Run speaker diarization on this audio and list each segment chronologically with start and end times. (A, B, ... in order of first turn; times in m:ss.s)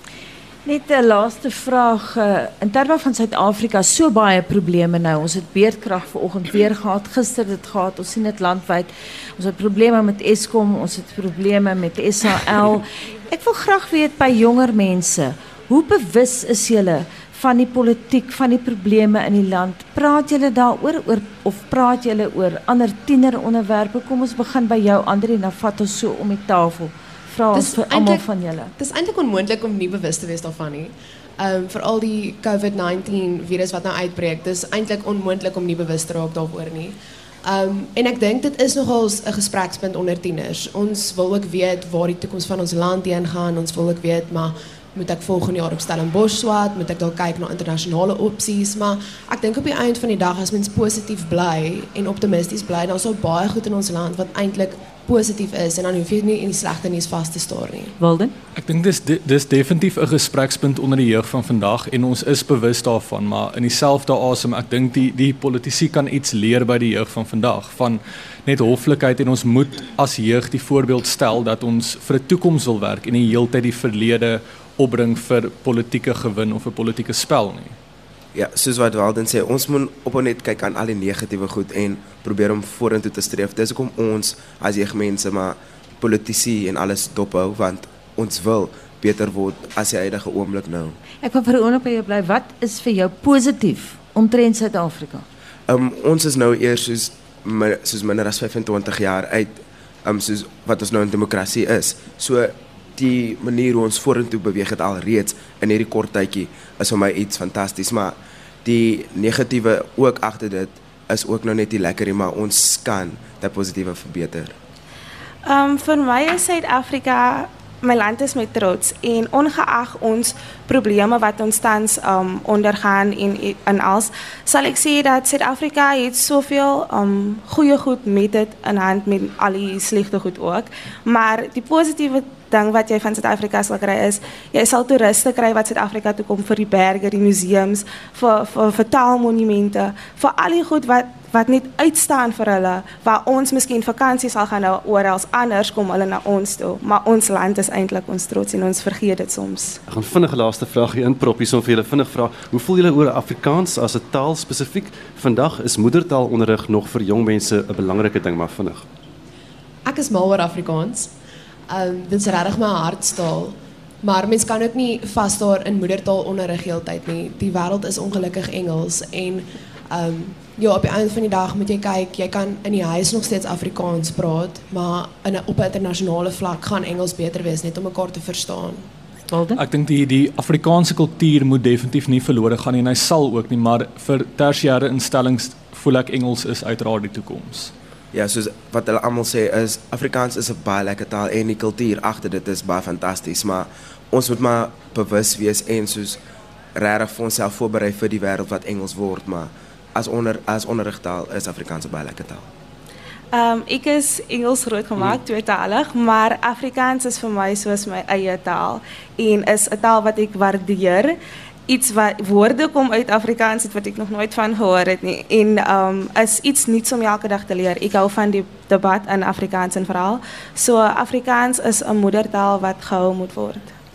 0:00.6-0:28.7 A
0:27.5-0:58.0 B
0:58.0-0:58.3 A
0:58.6-1:17.8 C
1:18.3-1:31.0 D
1:31.2-1:35.2 A
1:35.7-1:54.6 D
1:55.5-2:29.8 E
2:29.9-2:38.8 F
2:39.9-2:41.1 B
2:41.7-2:58.9 B
2:59.3-2:59.6 A
2:59.6-3:07.7 C
3:08.1-3:16.2 D
3:16.8-3:22.5 D
3:23.3-3:31.2 E
3:31.7-3:43.7 E